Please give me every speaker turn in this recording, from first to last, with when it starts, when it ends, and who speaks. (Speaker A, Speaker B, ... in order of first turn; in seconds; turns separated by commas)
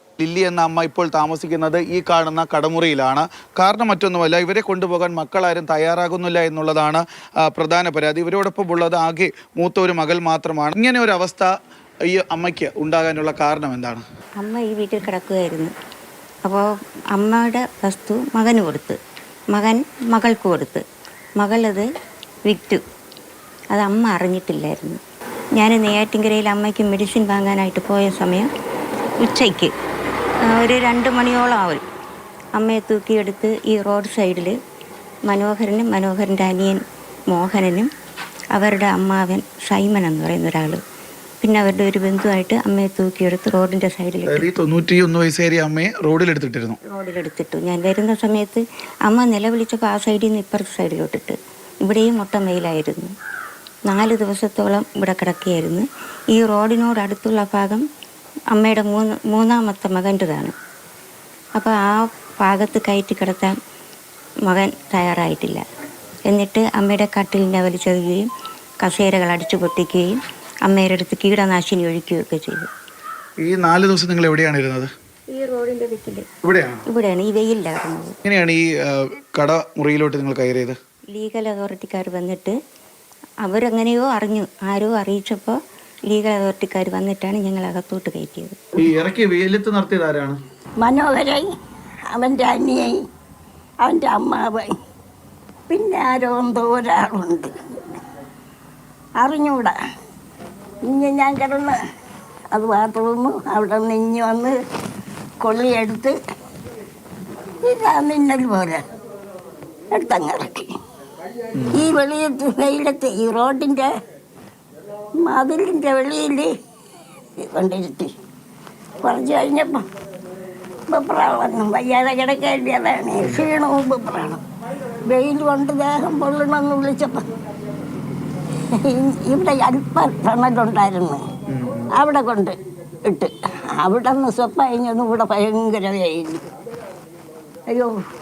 Speaker A: 0.2-11.5, Speaker A: 12.1-14.0, Speaker B: 14.4-15.7, Speaker B: 16.4-19.0, Speaker B: 19.5-20.8, Speaker B: 21.4-21.9, Speaker B: 22.4-22.8, Speaker B: 23.7-25.0, Speaker B: 25.6-28.5, Speaker B: 29.2-29.7, Speaker B: 30.5-31.8, Speaker B: 32.5-34.5, Speaker B: 35.3-36.8, Speaker B: 37.3-37.9, Speaker B: 38.5-40.8, Speaker B: 41.4-44.5, Speaker A: 44.3-46.8, Speaker B: 46.8-53.1, Speaker B: 53.9-57.8, Speaker B: 58.5-60.5, Speaker B: 61.6-63.5, Speaker B: 64.5-65.6, Speaker B: 66.3-68.2, Speaker B: 68.8-72.7, Speaker A: 73.4-74.9, Speaker B: 75.3-76.3, Speaker A: 76.4-76.8, Speaker B: 76.9-78.1, Speaker A: 78.2-80.8, Speaker B: 81.1-82.6, Speaker B: 83.5-85.6, Speaker B: 86.1-88.6, Speaker A: 88.8-90.4, Speaker C: 90.8-91.5, Speaker C: 92.1-93.0, Speaker C: 93.8-94.7, Speaker C: 95.7-98.0, Speaker C: 99.2-99.8, Speaker C: 100.8-101.8, Speaker C: 102.5-104.5, Speaker C: 105.4-106.2, Speaker C: 107.6-108.8, Speaker C: 109.9-110.7, Speaker A: 111.6-111.8, Speaker C: 111.7-113.9, Speaker C: 115.2-116.5, Speaker C: 117.4-118.1, Speaker C: 119.0-119.9, Speaker C: 120.9-124.4, Speaker C: 125.0-127.3, Speaker C: 128.7-131.2, Speaker A: 131.5-131.9, Speaker C: 131.9-136.4